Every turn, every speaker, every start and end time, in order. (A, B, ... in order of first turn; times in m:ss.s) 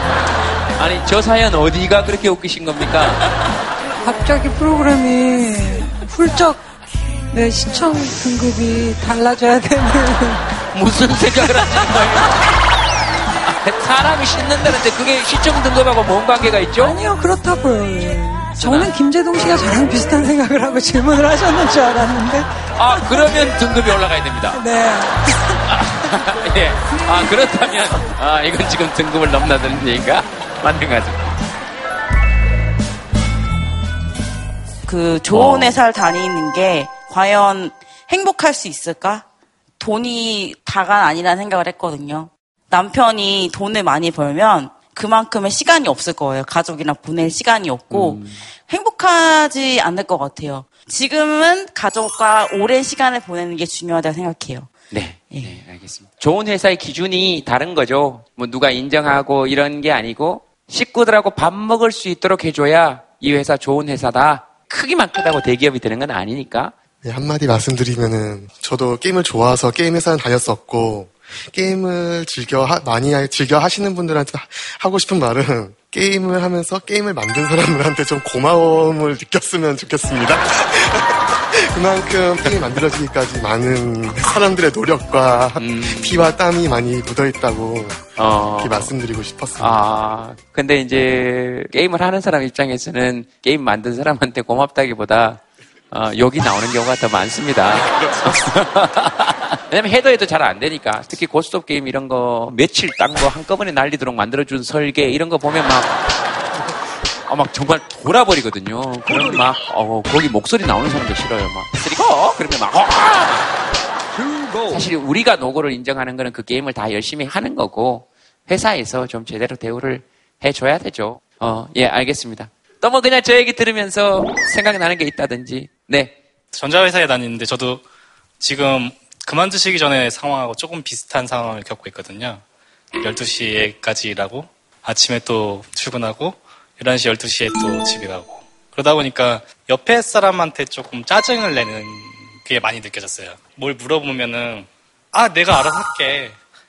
0:00.8-0:03.3 A
0:04.0-0:06.6 B
0:07.3-0:10.5 B
0:10.7-0:12.5 A
0:11.5-0:11.8 B
0:13.4-0:17.0 A
0:16.8-0:23.2 B
0:18.6-0:18.9 A
0:22.8-0:24.6 A
0:24.5-0:25.6 B
0:25.6-0:31.4 A
0:34.9-0:39.2 C
0:35.3-0:35.8 A
0:39.8-0:54.7 C
0:47.9-0:48.4 A
0:54.9-1:06.7 A
1:07.0-1:28.1 D
1:25.6-1:26.3 A
1:28.2-1:29.0 A
1:28.6-1:29.8 D
1:29.6-1:46.0 A
1:47.3-1:53.5 A
1:54.7-2:06.2 A
2:06.5-2:07.8 E
2:08.4-2:12.4 E
2:13.0-2:26.4 E